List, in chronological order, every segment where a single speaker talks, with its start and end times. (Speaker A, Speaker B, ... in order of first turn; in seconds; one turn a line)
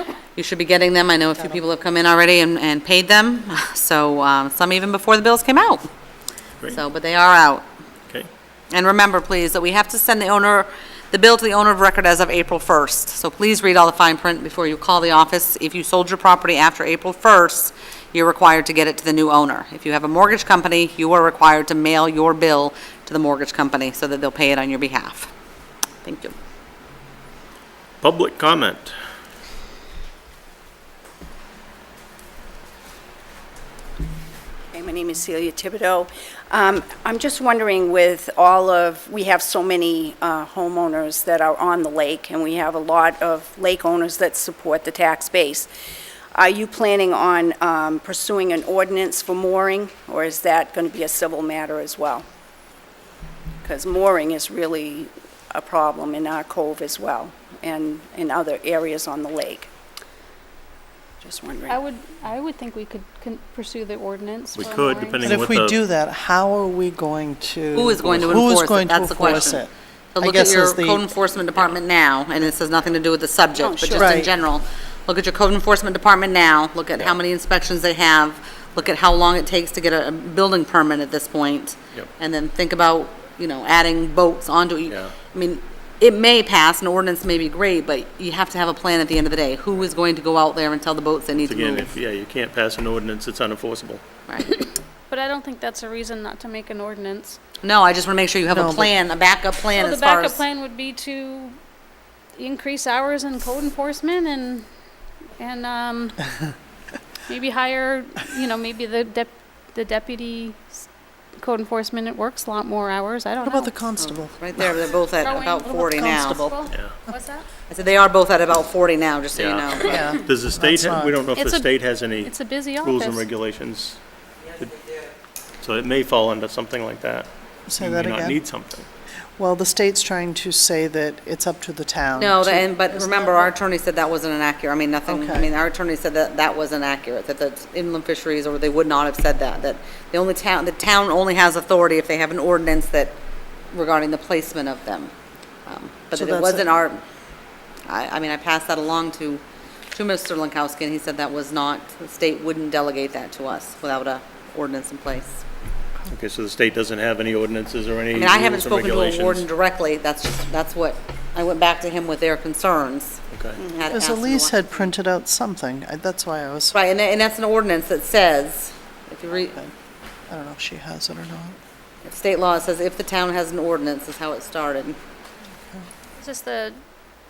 Speaker A: 0.3-5.9
Speaker A: 6.7-7.7
Speaker A: 8.7-25.3
Speaker A: 26.0-26.4
Speaker B: 28.0-28.9
Speaker C: 34.7-45.7
Speaker C: 46.3-52.2
Speaker C: 53.6-59.7
Speaker C: 61.2-61.8
Speaker D: 61.7-65.4
Speaker B: 64.5-65.8
Speaker E: 65.2-71.0
Speaker A: 67.7-91.9
Speaker C: 73.6-74.2
Speaker E: 73.8-74.3
Speaker B: 84.9-85.1
Speaker B: 91.4-94.0
Speaker A: 94.3-94.6
Speaker D: 95.1-97.4
Speaker A: 97.6-100.4
Speaker E: 98.5-98.9
Speaker D: 99.7-101.6
Speaker D: 102.4-104.7
Speaker D: 105.4-106.3
Speaker D: 107.3-110.8
Speaker D: 111.4-113.8
Speaker E: 113.4-114.7
Speaker A: 114.0-116.5
Speaker D: 115.2-117.5
Speaker E: 116.0-116.6
Speaker B: 116.7-117.0
Speaker A: 117.7-120.0
Speaker B: 119.4-124.0
Speaker E: 119.9-121.2
Speaker D: 121.3-123.3
Speaker B: 125.6-128.9
Speaker E: 127.7-128.4
Speaker E: 129.4-132.7
Speaker A: 132.2-143.2
Speaker E: 135.1-135.5
Speaker A: 143.7-145.1
Speaker A: 145.7-147.0
Speaker E: 146.1-146.7
Speaker A: 147.9-149.4
Speaker A: 149.9-155.4
Speaker B: 156.1-159.5
Speaker A: 158.1-164.9
Speaker B: 163.3-163.6
Speaker E: 163.9-166.7
Speaker A: 166.7-169.6
Speaker E: 170.3-171.6
Speaker A: 172.0-175.0
Speaker D: 176.2-176.8